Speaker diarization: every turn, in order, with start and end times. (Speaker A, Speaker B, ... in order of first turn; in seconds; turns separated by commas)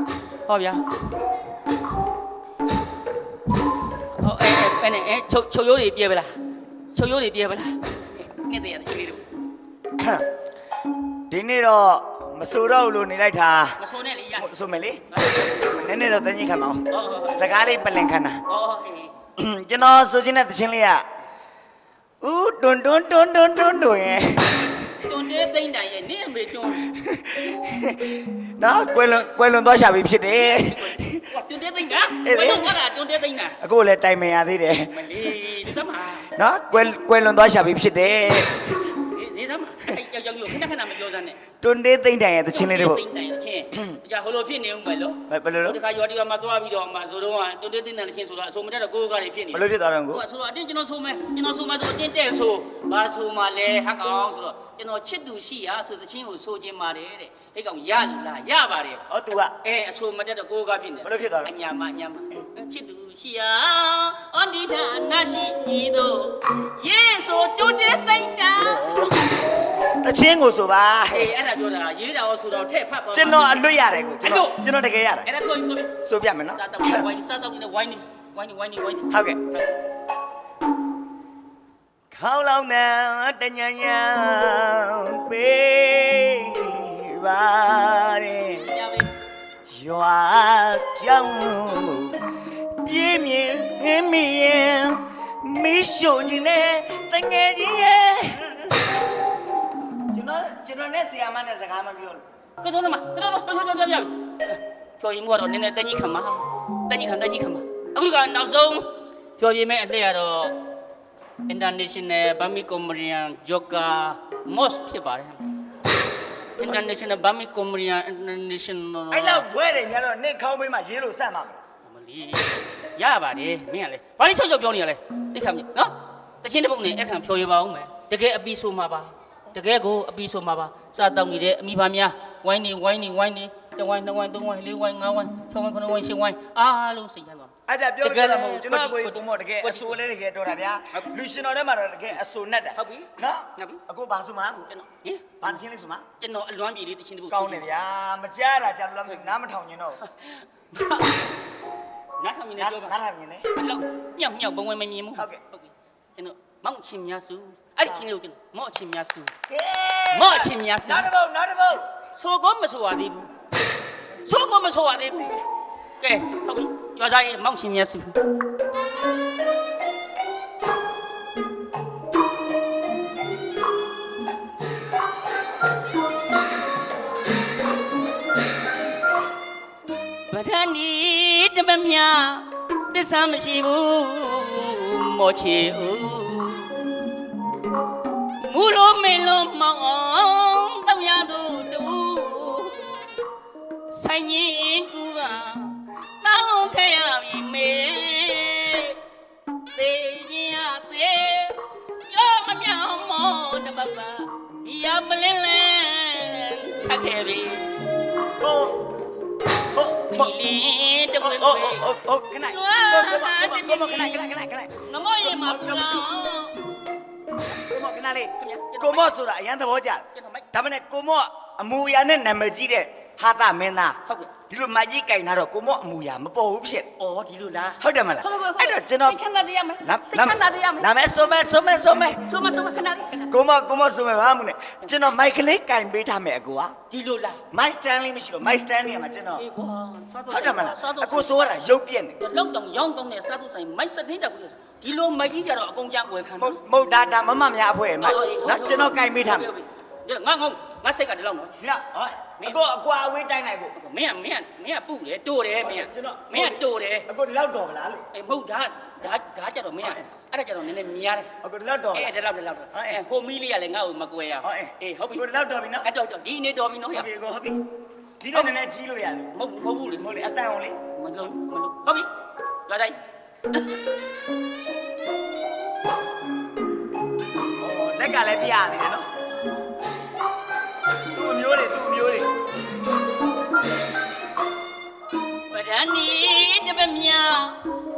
Speaker A: 0.5-0.8, Speaker A: 4.2-6.3, Speaker A: 6.9-9.2, Speaker B: 10.0-10.2, Speaker B: 11.3-13.8, Speaker A: 13.8-14.5, Speaker B: 14.3-18.4, Speaker A: 15.1-15.5, Speaker A: 16.9-17.4, Speaker A: 18.5-19.1, Speaker B: 19.4-21.0, Speaker B: 22.2-24.9, Speaker A: 25.0-26.9, Speaker B: 26.9-31.2, Speaker A: 30.3-33.5, Speaker B: 32.2-32.8, Speaker B: 33.6-35.4, Speaker A: 34.9-36.3, Speaker B: 36.4-38.8, Speaker A: 38.9-41.4, Speaker B: 41.6-43.0, Speaker A: 42.5-68.9, Speaker B: 45.3-45.8, Speaker B: 49.5-50.2, Speaker B: 59.1-59.5, Speaker B: 61.0-61.5, Speaker B: 68.6-69.4, Speaker B: 70.0-71.3, Speaker A: 71.1-73.5, Speaker B: 73.1-75.3, Speaker A: 74.2-74.6, Speaker A: 75.2-75.9, Speaker B: 76.0-77.0, Speaker A: 76.5-79.7, Speaker B: 79.1-79.4, Speaker B: 82.1-88.7, Speaker A: 88.5-89.1, Speaker B: 89.7-92.2, Speaker B: 92.8-98.5, Speaker B: 100.1-102.2, Speaker A: 102.6-110.5, Speaker A: 111.5-115.4, Speaker A: 116.6-119.5, Speaker B: 119.1-121.6, Speaker A: 121.8-137.5, Speaker B: 137.7-144.7, Speaker A: 138.0-140.0, Speaker A: 142.7-143.8, Speaker A: 144.7-145.5, Speaker B: 145.4-146.1, Speaker A: 146.2-147.6, Speaker B: 147.3-150.0, Speaker A: 150.1-151.2, Speaker A: 152.2-152.9, Speaker B: 152.6-153.4, Speaker A: 153.6-159.3, Speaker B: 155.1-155.4, Speaker B: 159.5-161.9, Speaker A: 160.1-161.1, Speaker A: 162.1-163.3, Speaker A: 164.2-165.3, Speaker A: 166.0-168.2, Speaker A: 180.3-186.7, Speaker A: 188.4-192.9, Speaker A: 193.9-199.0, Speaker A: 199.7-201.6, Speaker A: 202.1-207.7, Speaker B: 208.4-208.8, Speaker B: 209.7-210.3, Speaker A: 210.1-214.2, Speaker B: 211.2-216.1, Speaker A: 214.8-216.6, Speaker B: 217.5-226.9, Speaker A: 218.4-219.1, Speaker A: 220.1-220.5, Speaker A: 224.1-224.3, Speaker A: 227.0-230.9, Speaker B: 227.8-229.2, Speaker B: 229.8-232.6, Speaker A: 232.2-233.3, Speaker B: 233.3-236.7, Speaker A: 236.9-237.4, Speaker B: 237.5-239.4, Speaker A: 239.4-241.3, Speaker B: 240.3-242.2, Speaker A: 242.2-246.6, Speaker B: 246.4-249.5, Speaker A: 248.0-251.5, Speaker B: 251.6-253.7, Speaker A: 253.7-257.1, Speaker B: 255.6-258.0, Speaker A: 258.1-261.3, Speaker B: 259.8-260.1, Speaker B: 261.4-262.1, Speaker A: 261.9-265.3, Speaker B: 262.7-263.0, Speaker B: 264.4-265.9, Speaker A: 265.8-267.1, Speaker B: 266.9-267.6, Speaker B: 268.2-269.3, Speaker A: 269.3-270.1, Speaker B: 270.0-270.8, Speaker A: 270.9-272.1, Speaker A: 272.7-273.0, Speaker B: 277.6-279.1, Speaker B: 281.1-282.3, Speaker A: 285.5-287.6